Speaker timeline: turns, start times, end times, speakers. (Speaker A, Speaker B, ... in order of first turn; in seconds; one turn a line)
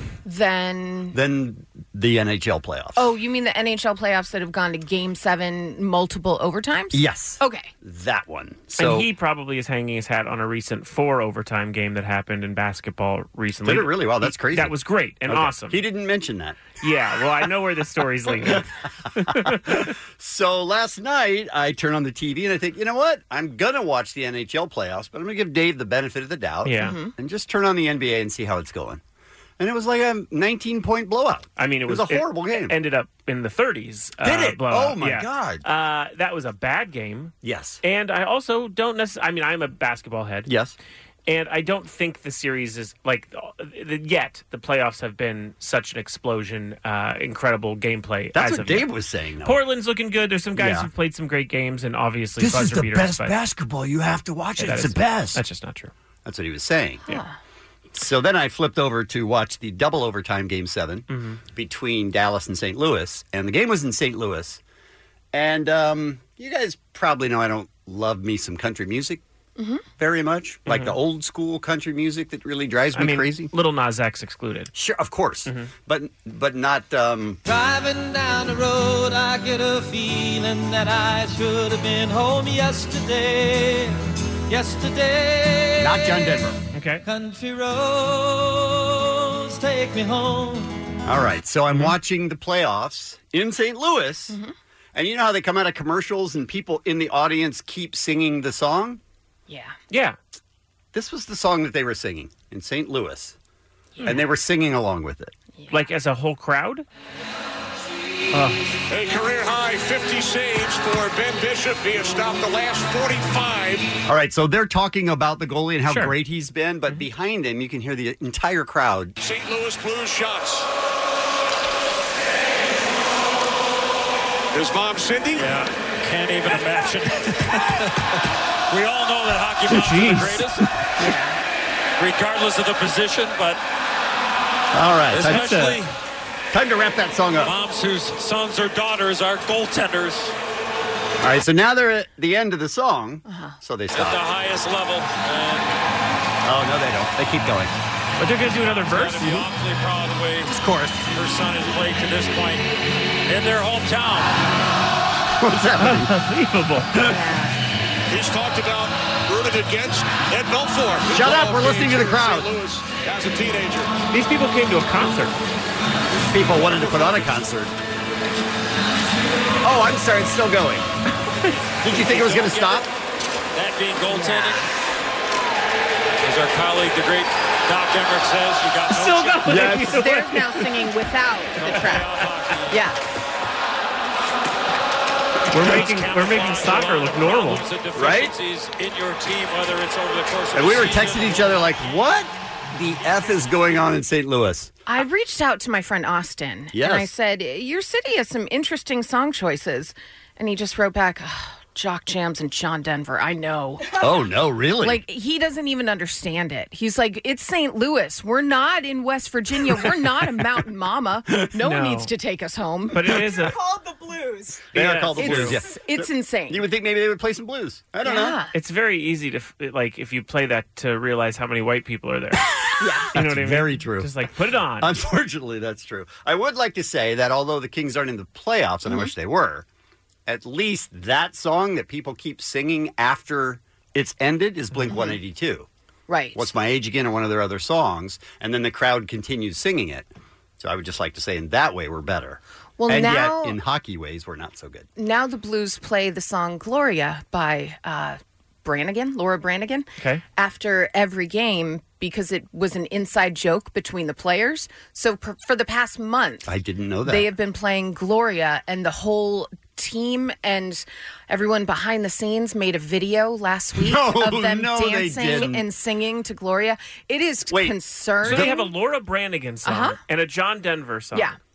Speaker A: 0.2-1.2
Speaker B: 1.1-3.1
Speaker A: 3.0-7.7
Speaker B: 6.9-9.1
Speaker C: 8.8-15.8
Speaker B: 13.7-16.7
Speaker C: 16.8-19.9
Speaker B: 19.5-29.0
Speaker C: 26.6-27.0
Speaker A: 26.8-27.1
Speaker B: 29.6-32.8
Speaker C: 31.6-37.3
Speaker B: 34.2-35.6
Speaker B: 37.4-37.8
Speaker C: 37.8-40.5
Speaker B: 40.5-40.8
Speaker C: 41.3-48.9
Speaker B: 48.3-49.6
Speaker C: 49.4-53.4
Speaker B: 50.5-50.9
Speaker B: 52.4-55.4
Speaker C: 54.6-55.9
Speaker B: 56.2-57.0
Speaker A: 57.1-57.4
Speaker B: 57.9-64.6
Speaker C: 61.1-61.4
Speaker B: 65.3-69.2
Speaker A: 69.6-69.8
Speaker B: 70.0-73.5
Speaker C: 70.7-71.0
Speaker C: 72.9-74.7
Speaker B: 74.7-77.4
Speaker D: 77.4-86.5
Speaker B: 85.8-86.6
Speaker C: 86.7-87.0
Speaker D: 87.0-90.8
Speaker B: 91.0-94.4
Speaker B: 94.9-99.0
Speaker A: 99.5-99.8
Speaker C: 99.9-100.2
Speaker B: 100.9-103.4
Speaker B: 104.0-105.3
Speaker C: 105.7-106.8
Speaker C: 108.3-108.6
Speaker E: 108.9-113.9
Speaker B: 114.0-119.2
Speaker C: 115.9-116.2
Speaker E: 119.2-120.7
Speaker E: 124.5-127.8
Speaker E: 128.7-130.6
Speaker C: 129.7-130.4
Speaker B: 129.9-130.4
Speaker A: 131.0-131.4
Speaker E: 132.0-133.6
Speaker B: 134.7-135.8
Speaker E: 135.1-135.9
Speaker B: 136.5-137.5
Speaker E: 137.4-140.3
Speaker B: 141.2-144.3
Speaker A: 143.3-143.6
Speaker E: 143.9-145.7
Speaker B: 146.4-147.7
Speaker C: 148.2-149.5
Speaker E: 148.5-150.5
Speaker B: 150.5-151.1
Speaker E: 151.1-152.6
Speaker E: 153.3-154.4
Speaker B: 155.4-156.1
Speaker C: 155.8-156.9
Speaker A: 157.0-157.6
Speaker E: 158.1-164.0
Speaker B: 161.1-162.5
Speaker C: 164.1-165.4
Speaker B: 166.3-167.7
Speaker B: 169.6-170.9
Speaker B: 171.8-172.9
Speaker E: 171.9-172.9
Speaker E: 173.6-174.7
Speaker A: 174.1-174.7
Speaker E: 176.2-179.6
Speaker C: 178.9-180.6
Speaker A: 179.5-182.1
Speaker E: 181.6-182.8
Speaker A: 182.7-183.0
Speaker C: 185.5-187.6
Speaker E: 185.5-191.6
Speaker B: 187.9-188.3
Speaker B: 190.5-194.7
Speaker A: 194.9-204.0
Speaker B: 196.7-197.1
Speaker B: 203.9-205.0
Speaker A: 204.8-213.1
Speaker C: 211.6-212.1
Speaker C: 212.9-213.6
Speaker C: 214.7-215.6
Speaker B: 214.7-218.4
Speaker A: 215.2-216.6
Speaker A: 218.0-218.5
Speaker C: 218.5-222.5
Speaker A: 222.8-223.1
Speaker C: 223.1-224.9
Speaker B: 223.1-224.1
Speaker B: 224.8-229.7
Speaker B: 230.3-235.7
Speaker A: 234.9-235.2
Speaker A: 236.1-236.5
Speaker B: 236.3-244.9
Speaker A: 242.8-243.6
Speaker A: 245.0-256.5
Speaker C: 250.0-250.2
Speaker B: 256.4-257.3
Speaker A: 257.1-268.7
Speaker B: 263.8-265.7
Speaker B: 267.5-268.5
Speaker C: 268.2-271.3
Speaker A: 269.6-270.0